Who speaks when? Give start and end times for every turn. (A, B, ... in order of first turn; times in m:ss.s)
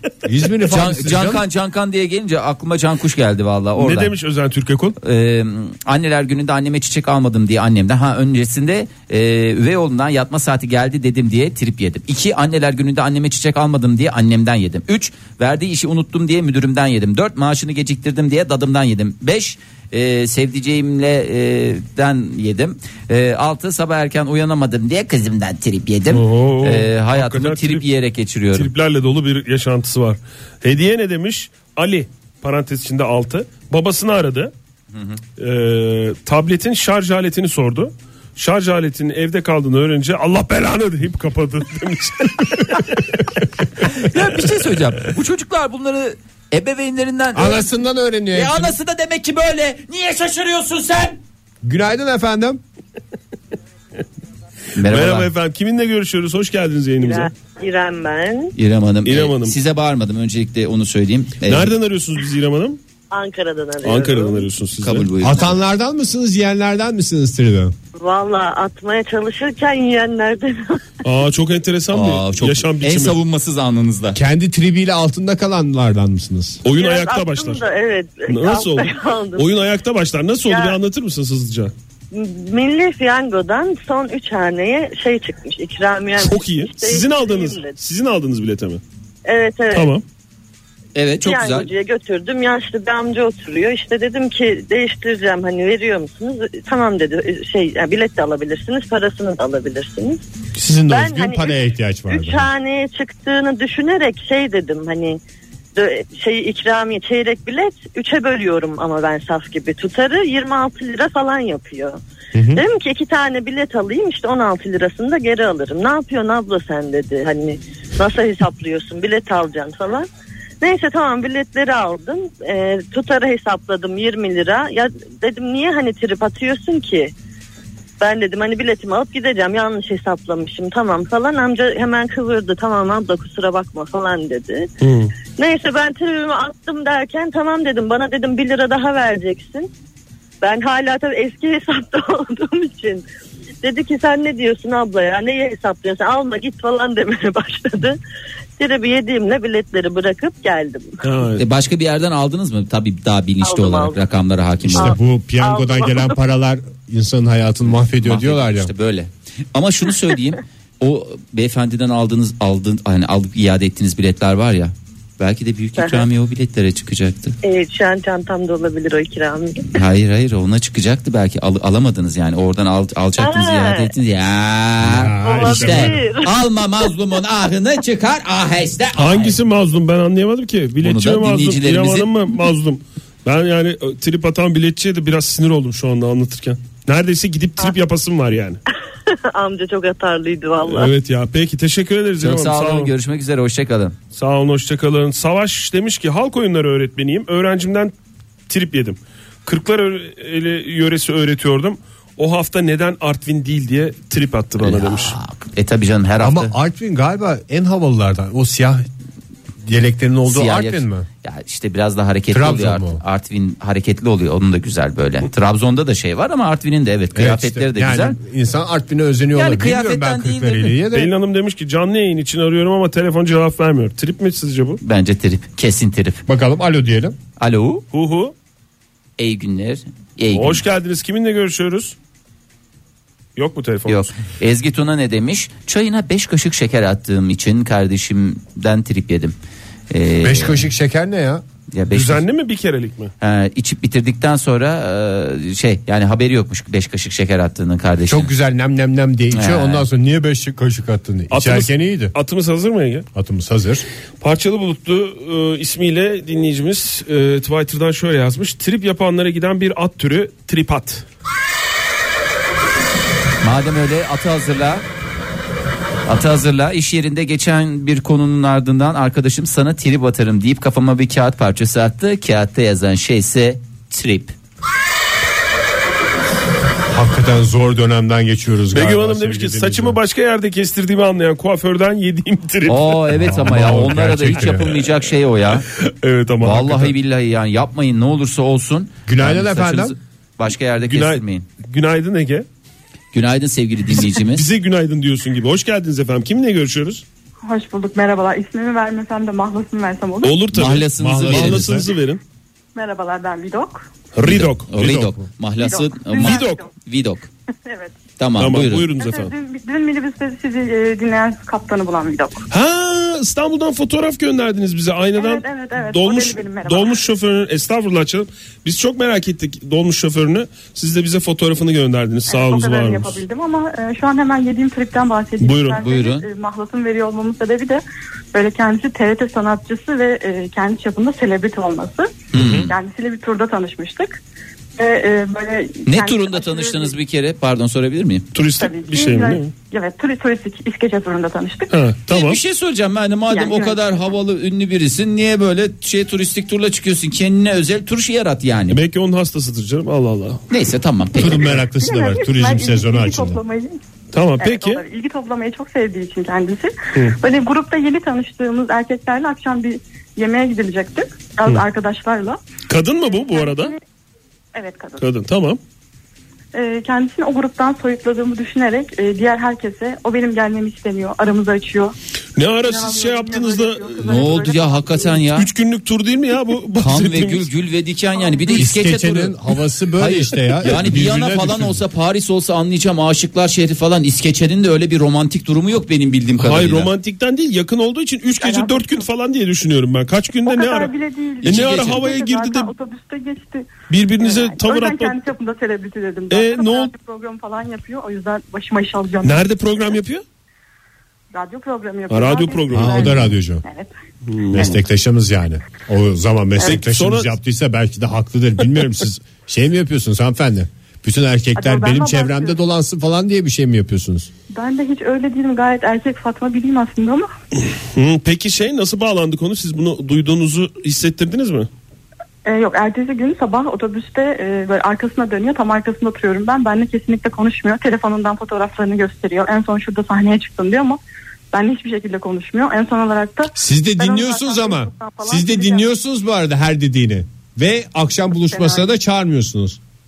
0:00.2-0:01.4 A
0:00.6-0:04.1 B
0:03.8-0:05.0 C
0:05.0-0:28.7 B
0:26.1-0:27.9 C
0:28.5-0:34.5 C
0:34.9-0:35.2 B
0:35.4-0:43.2 C
0:43.8-0:47.6 B
0:47.3-0:48.7 A
0:48.3-0:51.2 B
0:51.6-0:52.6 A
0:54.7-0:55.3 B
0:54.8-0:57.3 C
0:57.0-0:58.5 D
0:58.6-1:01.7 B
0:59.0-0:59.6 C
1:01.4-1:02.8 C
1:03.1-1:04.5 D
1:03.8-1:05.1 C
1:04.8-1:05.6 B
1:05.2-1:07.7 A
1:08.0-1:10.8 D
1:11.0-1:13.2 C
1:11.9-1:14.2 B
1:14.1-1:16.6 A
1:16.6-1:17.6 C
1:16.7-1:19.5 D
1:18.3-1:21.7 C
1:20.5-1:20.8 D
1:22.1-1:27.8 D
1:26.2-1:28.8 C
1:29.2-1:29.9 D
1:29.7-1:30.0 C
1:30.9-1:31.7 B
1:31.2-1:40.2 D
1:40.6-1:42.5 A
1:40.9-1:45.2 D
1:45.8-1:52.0 D
1:52.3-1:52.6 A
1:52.5-2:00.1 D
2:00.6-2:07.1 D
2:08.0-2:14.7 D
2:14.8-2:15.1 C
2:15.4-2:19.7 D
2:20.4-2:23.0 D
2:23.6-2:28.0 D
2:28.6-2:31.1 D
2:31.0-2:31.4 C
2:31.4-2:34.9 B
2:33.4-2:34.0 D
2:34.7-2:36.1 D
2:34.7-2:38.7 A
2:37.9-2:47.4 B
2:45.8-2:46.1 D
2:47.4-2:49.7 D
2:49.7-2:59.4 B
2:53.2-2:53.9 D
2:54.8-2:56.0 A
2:55.2-2:56.3 D
2:59.0-3:08.6 C
3:00.8-3:02.1 B
3:09.1-3:10.9 D
3:10.6-3:12.9 C
3:12.2-3:14.0 B
3:14.1-3:17.9 C
3:18.5-3:25.1 C
3:24.6-3:26.5 B
3:26.2-3:28.8 A
3:29.6-3:31.1 A
3:30.3-3:38.2 B
3:32.3-3:33.0 A
3:37.1-3:41.1 A
3:39.3-3:40.8 B
3:40.9-3:44.8 C
3:44.8-3:46.2 B
3:46.3-3:47.2 A
3:47.4-3:47.8 B
3:47.9-3:48.3 C
3:49.2-3:50.6 B
3:50.3-3:52.0 C
3:53.4-3:54.0 C
3:53.9-3:59.3 B
3:59.9-4:00.6 B
4:00.2-4:01.4 A
4:01.7-4:02.2 B
4:01.9-4:03.1 C
4:03.2-4:08.3 B
4:08.0-4:12.1 A
4:09.3-4:09.8 B
4:11.3-4:13.0 C
4:13.1-4:13.8 A
4:14.2-4:21.0 C
4:23.4-4:24.8 B
4:26.0-4:34.3 B
4:36.9-4:40.0 A
4:38.7-4:43.8 C
4:42.6-4:45.6 B
4:43.1-4:44.8 A
4:44.4-4:44.7 C
4:45.7-4:46.9 C
4:46.4-4:51.4 B
4:49.1-4:49.9 A
4:50.8-4:52.4 C
4:53.1-4:54.5 B
4:54.0-4:57.0 C
4:57.4-5:00.4 E
5:00.2-5:02.2 C
5:00.5-5:01.9 B
5:01.0-5:01.8 A
5:02.7-5:03.9 E
5:04.1-5:05.1 C
5:04.2-5:07.3 B
5:04.7-5:05.2 A
5:05.6-5:06.7 E
5:06.1-5:06.6 C
5:07.6-5:08.0 E
5:08.2-5:08.9 B
5:08.4-5:09.3 C
5:08.9-5:12.4 E
5:12.5-5:23.2 C
5:15.1-5:17.0 E
5:22.3-5:27.8 E
5:25.4-5:25.8 C
5:25.8-5:26.2 B
5:28.3-5:34.2 E
5:32.3-5:32.7 B
5:32.3-5:32.7 C
5:34.8-5:36.9 E
5:35.9-5:38.3 B
5:38.3-5:39.5 C
5:38.5-5:41.7 E
5:41.7-5:42.4 C
5:42.1-5:48.8 B
5:43.3-5:44.1 E
5:48.7-5:50.4 C
5:50.5-5:51.6 B
5:51.2-5:53.4 A
5:51.7-5:53.8 E
5:54.1-5:54.8 C
5:54.4-6:02.4 E
6:02.7-6:03.7 C
6:03.0-6:03.8 E
6:04.5-6:05.0 E
6:05.0-6:05.6 C
6:06.5-6:11.9 E
6:12.4-6:14.3 C
6:12.6-6:15.1 E
6:14.0-6:15.5 B
6:15.2-6:17.5 C
6:16.8-6:26.9 B
6:18.2-6:18.4 E
6:18.5-6:21.8 A
6:20.6-6:20.9 C
6:26.4-6:32.7 C
6:28.4-6:29.0 E
6:30.4-6:39.5 E
6:31.4-6:32.1 B
6:33.9-6:35.2 C
6:36.3-6:36.9 C
6:39.2-6:40.2 C
6:41.3-6:43.9 E
6:42.1-6:43.3 C
6:42.7-6:43.6 A
6:44.3-6:44.7 C
6:44.5-6:54.3 A
6:44.5-6:44.8 E
6:46.6-6:47.3 C
6:51.6-6:52.6 E
6:54.5-6:57.3 E
6:57.9-7:01.7 C
7:02.4-7:11.0 E
7:11.5-7:15.9 E
7:13.5-7:19.8 A
7:18.5-7:19.0 E